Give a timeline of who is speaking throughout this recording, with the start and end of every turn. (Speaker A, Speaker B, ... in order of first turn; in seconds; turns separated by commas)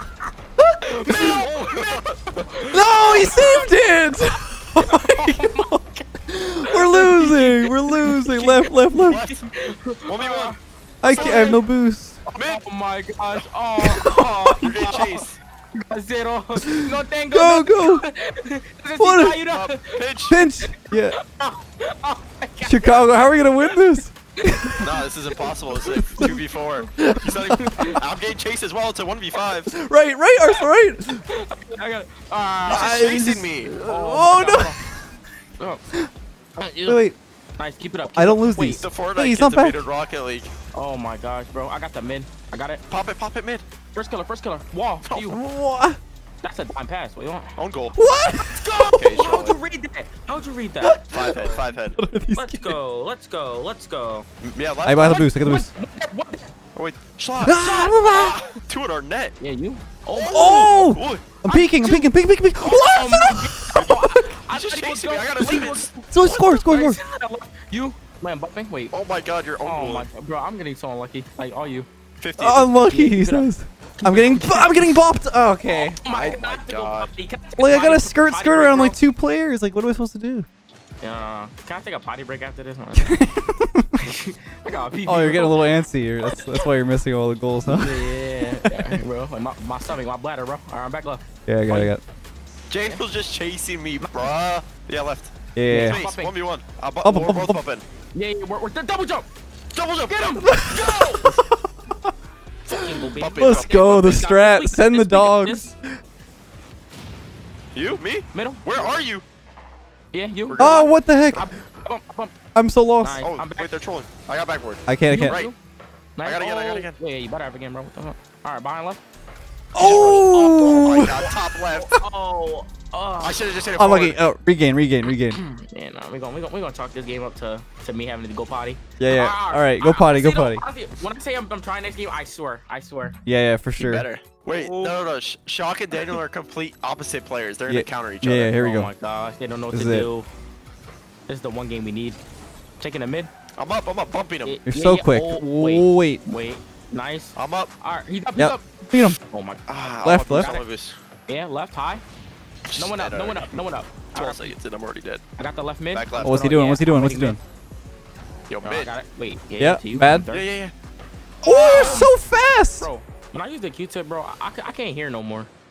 Speaker A: 0.6-1.3, Speaker B: 0.8-6.1, Speaker C: 1.1-2.5, Speaker A: 2.7-5.8, Speaker A: 6.3-9.2, Speaker B: 6.6-11.6, Speaker C: 8.9-9.5, Speaker C: 10.1-10.6, Speaker A: 11.0-12.2, Speaker C: 11.1-11.6, Speaker B: 12.2-15.2, Speaker C: 12.3-12.6, Speaker A: 13.8-14.7, Speaker C: 14.6-15.4, Speaker B: 15.8-20.0, Speaker A: 16.6-18.1, Speaker A: 19.0-19.4, Speaker C: 19.5-20.4, Speaker A: 20.3-21.2, Speaker B: 20.6-23.8, Speaker A: 22.6-24.9, Speaker B: 24.4-24.8, Speaker C: 24.8-29.7, Speaker B: 25.4-26.4, Speaker A: 26.1-26.4, Speaker A: 27.0-27.9, Speaker B: 27.6-28.0, Speaker A: 29.6-31.2, Speaker B: 31.3-33.1, Speaker C: 32.7-33.7, Speaker A: 32.7-35.0, Speaker B: 33.8-34.8, Speaker B: 36.6-37.0, Speaker A: 36.8-37.2, Speaker B: 37.6-38.6, Speaker A: 38.1-39.8, Speaker C: 38.6-40.5, Speaker B: 40.7-42.8, Speaker C: 42.9-43.6, Speaker B: 43.9-45.4, Speaker C: 45.1-45.4, Speaker A: 45.3-46.0, Speaker B: 46.4-47.5, Speaker C: 47.6-48.0, Speaker A: 47.9-48.6, Speaker B: 48.5-51.5, Speaker C: 48.9-49.6, Speaker A: 50.8-52.8, Speaker C: 51.1-52.0, Speaker B: 52.4-54.3, Speaker C: 54.4-55.3, Speaker A: 54.9-55.7, Speaker B: 55.0-56.5, Speaker C: 56.8-59.4, Speaker A: 57.4-58.4, Speaker B: 57.5-58.6, Speaker B: 59.4-60.9, Speaker C: 60.1-61.2, Speaker A: 60.3-64.3, Speaker B: 61.4-68.9, Speaker C: 64.5-65.9, Speaker A: 66.1-67.0, Speaker C: 68.9-70.1, Speaker B: 69.6-71.9, Speaker C: 72.2-72.7, Speaker A: 72.4-76.0, Speaker B: 72.8-74.9, Speaker B: 75.7-79.0, Speaker C: 76.1-77.1, Speaker A: 77.6-80.5, Speaker B: 81.0-83.2, Speaker A: 83.0-83.9, Speaker B: 84.0-86.7, Speaker A: 85.1-89.0, Speaker B: 87.6-91.9, Speaker A: 91.5-92.0, Speaker C: 92.7-97.8, Speaker B: 94.0-94.3, Speaker A: 95.5-96.0, Speaker B: 95.7-96.3, Speaker A: 97.0-97.6, Speaker B: 98.1-99.3, Speaker C: 99.7-101.3, Speaker B: 100.0-101.4, Speaker A: 100.5-102.1, Speaker B: 102.7-105.7, Speaker C: 103.2-104.2, Speaker A: 103.3-106.0, Speaker C: 107.7-109.2, Speaker B: 108.3-109.0, Speaker B: 110.1-112.3, Speaker C: 110.5-110.9, Speaker A: 110.6-111.5, Speaker A: 112.5-113.2, Speaker B: 113.0-113.7, Speaker C: 113.2-115.5, Speaker A: 114.9-115.4, Speaker B: 115.1-115.5, Speaker B: 116.2-119.0, Speaker C: 116.2-116.9, Speaker A: 119.7-121.3, Speaker C: 119.8-122.0, Speaker B: 119.8-123.4, Speaker C: 123.2-124.2, Speaker A: 123.8-125.4, Speaker B: 125.1-133.2, Speaker A: 129.0-130.6, Speaker A: 133.2-134.1, Speaker C: 133.8-138.6, Speaker B: 134.5-135.0, Speaker A: 137.7-138.9, Speaker B: 138.6-140.3, Speaker A: 139.7-140.1, Speaker B: 141.3-142.2, Speaker B: 142.8-143.3, Speaker C: 143.6-144.6, Speaker B: 144.4-149.6, Speaker A: 144.7-146.2, Speaker C: 147.3-147.7, Speaker A: 148.3-149.2, Speaker C: 149.7-150.9, Speaker A: 150.0-150.6, Speaker B: 150.3-150.7, Speaker B: 151.3-152.0, Speaker C: 152.7-153.6, Speaker B: 152.8-154.5, Speaker C: 154.1-155.2, Speaker B: 155.4-157.4, Speaker C: 155.9-156.4, Speaker A: 156.2-157.4, Speaker C: 158.5-158.9, Speaker B: 158.6-160.5, Speaker A: 159.6-160.3, Speaker C: 160.3-160.7, Speaker C: 161.4-162.1, Speaker A: 161.4-162.9, Speaker B: 161.4-162.2, Speaker B: 162.8-165.5